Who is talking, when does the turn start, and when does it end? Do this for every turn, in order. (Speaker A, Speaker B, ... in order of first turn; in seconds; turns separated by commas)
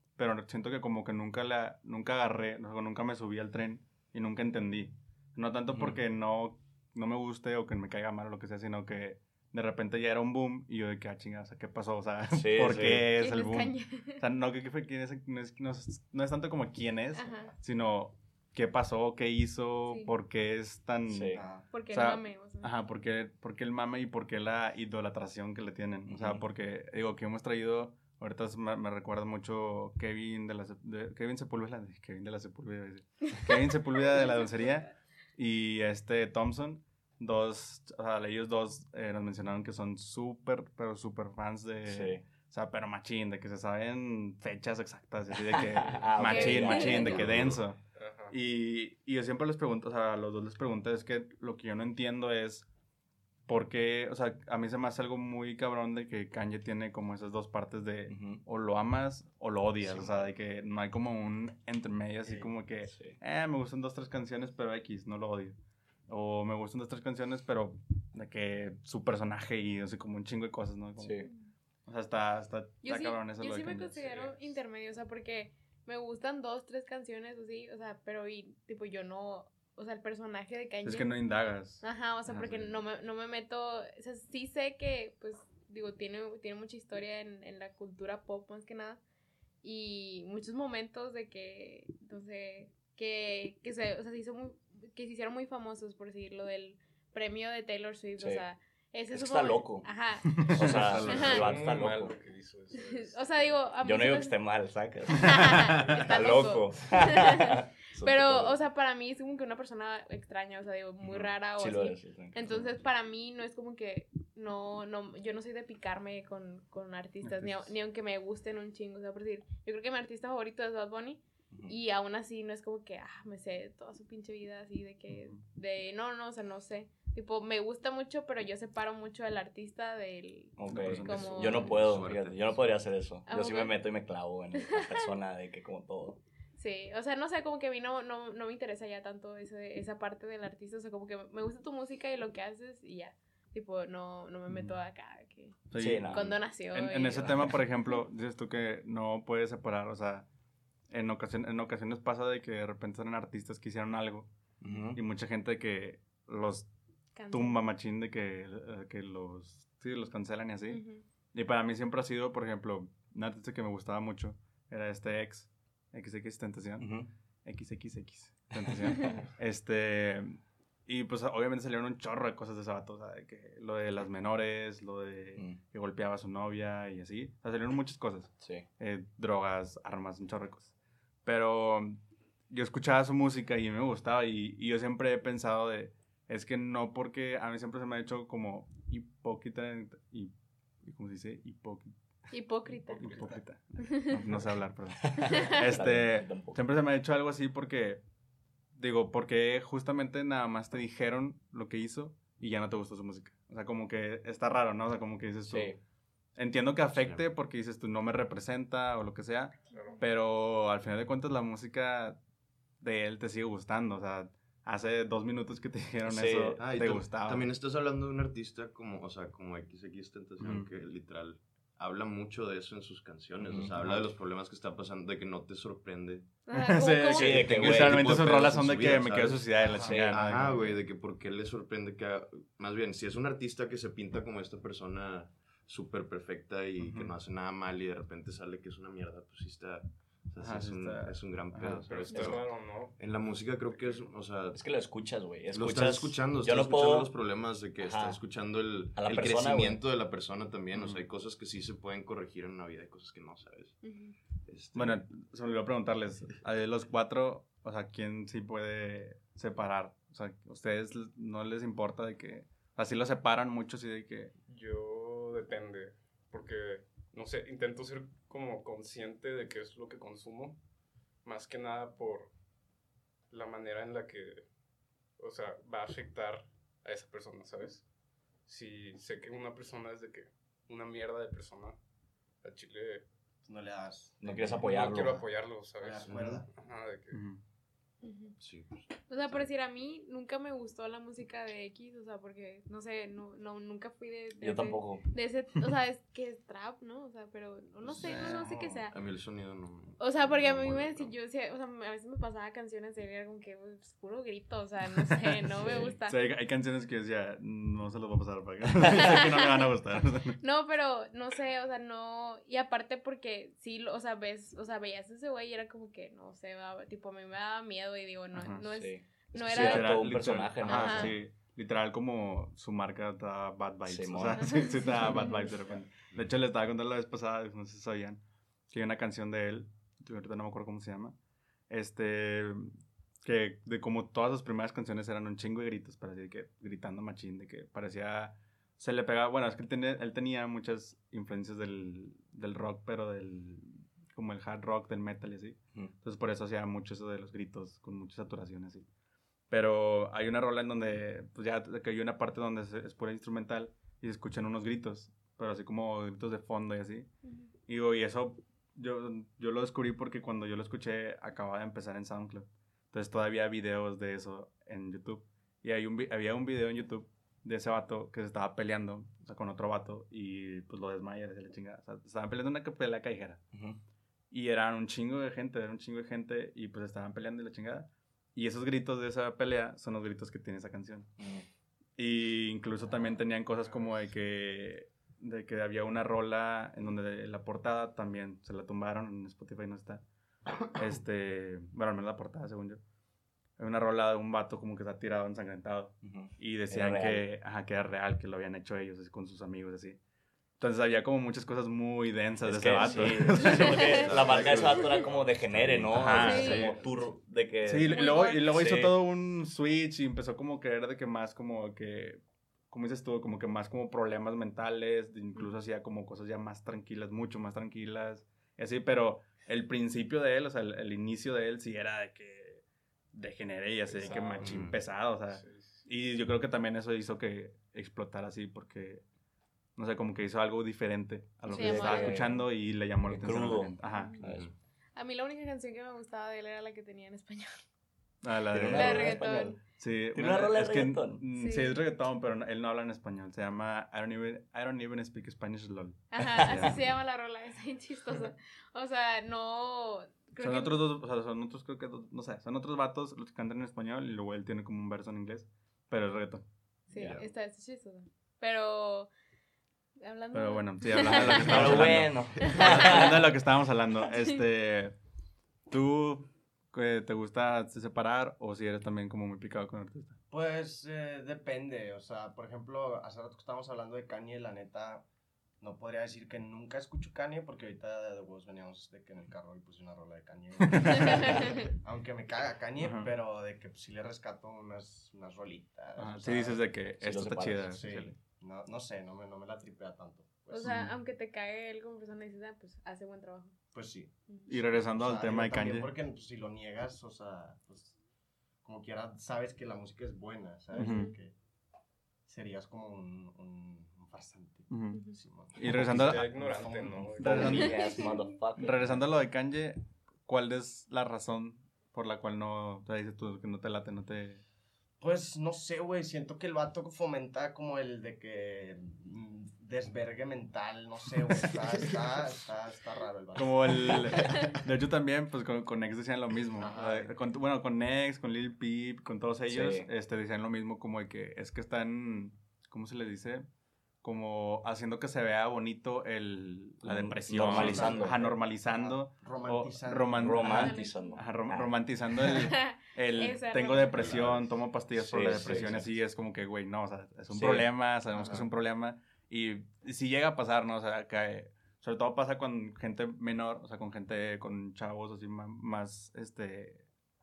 Speaker A: 0.1-52.6, Speaker B: 5.7-6.0, Speaker B: 12.3-13.1, Speaker C: 13.0-14.2, Speaker C: 17.1-17.5, Speaker B: 21.1-21.4, Speaker D: 21.3-21.7, Speaker C: 21.7-22.7, Speaker B: 26.1-26.4, Speaker B: 41.9-42.2, Speaker B: 45.5-47.6, Speaker C: 46.1-47.2, Speaker E: 47.2-47.6, Speaker F: 48.0-48.4, Speaker A: 53.5-65.6, Speaker B: 58.1-58.4, Speaker B: 62.8-63.2, Speaker A: 66.1-71.2, Speaker B: 71.0-71.3, Speaker A: 71.9-74.3, Speaker C: 72.8-81.2, Speaker A: 80.8-81.8, Speaker C: 81.8-89.0, Speaker C: 89.6-101.4, Speaker B: 98.2-98.4, Speaker B: 99.1-102.1, Speaker A: 100.3-101.5, Speaker F: 101.1-103.7, Speaker C: 102.8-104.4, Speaker B: 103.8-108.6, Speaker C: 105.1-131.8, Speaker B: 111.0-112.6, Speaker A: 117.2-117.7, Speaker A: 125.1-125.4, Speaker B: 130.6-136.2, Speaker A: 130.7-131.8, Speaker E: 131.1-132.7, Speaker C: 133.3-133.8, Speaker C: 134.6-135.1, Speaker C: 136.6-147.5, Speaker A: 145.7-150.2, Speaker B: 145.8-146.4, Speaker B: 147.1-147.5, Speaker A: 150.9-154.3, Speaker B: 154.6-155.0, Speaker A: 154.9-156.7, Speaker C: 157.2-157.6, Speaker A: 157.3-166.9, Speaker C: 160.7-161.0, Speaker B: 166.8-167.1, Speaker A: 167.4-180.7, Speaker B: 178.4-178.7, Speaker A: 181.2-191.9, Speaker C: 192.3-194.2, Speaker F: 192.9-193.4, Speaker A: 192.9-198.0, Speaker B: 195.0-196.6, Speaker C: 195.2-195.6, Speaker A: 198.7-205.7, Speaker B: 205.4-205.8, Speaker A: 206.4-212.2, Speaker E: 206.9-207.2, Speaker F: 209.7-210.0, Speaker C: 209.7-210.0, Speaker A: 212.8-217.5, Speaker B: 216.0-216.6, Speaker E: 216.6-226.3, Speaker A: 220.4-220.7, Speaker B: 223.4-223.7, Speaker A: 223.8-224.1, Speaker C: 226.4-227.6, Speaker A: 226.5-230.6, Speaker B: 227.1-228.2, Speaker E: 227.2-244.6, Speaker D: 229.6-230.5, Speaker B: 229.8-230.2, Speaker A: 236.8-237.1, Speaker A: 240.4-241.9, Speaker F: 241.8-243.0, Speaker C: 242.1-242.4, Speaker F: 243.7-244.0, Speaker B: 244.5-247.1, Speaker E: 245.5-253.8, Speaker B: 247.8-248.2, Speaker B: 248.9-249.8, Speaker A: 250.7-251.0, Speaker C: 253.8-254.2, Speaker E: 254.4-255.0, Speaker A: 254.7-264.3, Speaker F: 264.5-270.6, Speaker F: 271.2-272.3, Speaker F: 273.3-274.5, Speaker F: 275.2-277.8, Speaker F: 278.4-281.8, Speaker F: 282.4-283.1, Speaker D: 283.4-285.2, Speaker B: 284.2-285.2, Speaker F: 284.4-287.2, Speaker D: 285.8-286.5, Speaker E: 286.1-286.4, Speaker A: 287.1-287.4, Speaker C: 288.0-288.4, Speaker E: 288.4-289.5, Speaker C: 289.1-298.9, Speaker B: 294.4-295.1, Speaker E: 297.9-301.1, Speaker A: 298.0-298.8, Speaker C: 300.0-306.2, Speaker A: 305.0-310.4, Speaker B: 305.6-305.9, Speaker C: 308.8-309.7, Speaker C: 310.4-321.2, Speaker A: 318.3-318.6, Speaker B: 318.7-321.2, Speaker A: 319.5-331.1, Speaker B: 323.9-324.6, Speaker C: 324.4-325.5, Speaker A: 331.7-348.9, Speaker A: 349.5-357.1, Speaker C: 357.2-357.5, Speaker A: 357.7-373.4, Speaker B: 373.5-373.8, Speaker A: 374.3-381.1, Speaker B: 381.2-381.4, Speaker A: 382.0-390.0, Speaker A: 390.6-392.8, Speaker A: 393.6-400.0, Speaker B: 396.0-397.3, Speaker A: 400.6-404.5, Speaker B: 402.4-409.0, Speaker C: 403.5-404.1, Speaker E: 403.5-406.8, Speaker A: 405.9-406.7, Speaker C: 406.1-406.6, Speaker A: 407.6-429.0, Speaker C: 407.9-408.5, Speaker F: 423.9-424.7, Speaker E: 424.4-424.8, Speaker F: 425.3-425.9, Speaker A: 429.8-434.2, Speaker B: 431.5-432.4, Speaker C: 431.5-432.3, Speaker B: 433.0-434.5, Speaker C: 433.9-434.2, Speaker E: 434.2-434.5, Speaker C: 434.9-437.6, Speaker A: 438.2-446.8, Speaker B: 438.5-439.6, Speaker C: 438.6-439.6, Speaker B: 440.1-441.2, Speaker C: 441.3-441.8, Speaker C: 446.1-450.8, Speaker B: 446.2-446.5, Speaker A: 450.4-456.4, Speaker C: 456.9-459.1, Speaker E: 456.9-457.3, Speaker C: 460.0-462.8, Speaker A: 460.3-464.9, Speaker B: 461.0-463.2, Speaker A: 465.7-470.2, Speaker D: 470.3-475.0, Speaker D: 475.6-486.6, Speaker A: 480.6-481.3, Speaker C: 480.9-481.6, Speaker A: 482.8-483.1, Speaker A: 486.0-488.1, Speaker B: 487.0-487.7, Speaker D: 487.7-490.8, Speaker C: 490.5-493.5, Speaker A: 490.6-490.9, Speaker D: 493.7-494.1, Speaker C: 494.3-494.6, Speaker A: 494.5-495.9, Speaker D: 494.7-497.9, Speaker D: 498.6-501.3, Speaker C: 500.7-501.1, Speaker A: 500.8-501.1, Speaker D: 502.3-507.6, Speaker A: 504.7-505.0, Speaker C: 504.9-505.2, Speaker A: 505.5-506.4, Speaker F: 505.6-508.0, Speaker A: 507.1-508.0, Speaker B: 507.2-508.8, Speaker C: 507.7-508.2, Speaker A: 508.6-514.4, Speaker D: 515.0-524.2, Speaker A: 523.3-533.5, Speaker D: 526.6-527.1, Speaker B: 529.5-529.9, Speaker A: 534.0-556.8, Speaker B: 536.8-538.2, Speaker D: 537.3-540.6, Speaker B: 540.1-541.7, Speaker C: 540.4-541.2, Speaker C: 542.2-544.2, Speaker E: 544.0-544.5, Speaker B: 544.9-545.9, Speaker B: 547.3-547.7, Speaker D: 548.1-548.5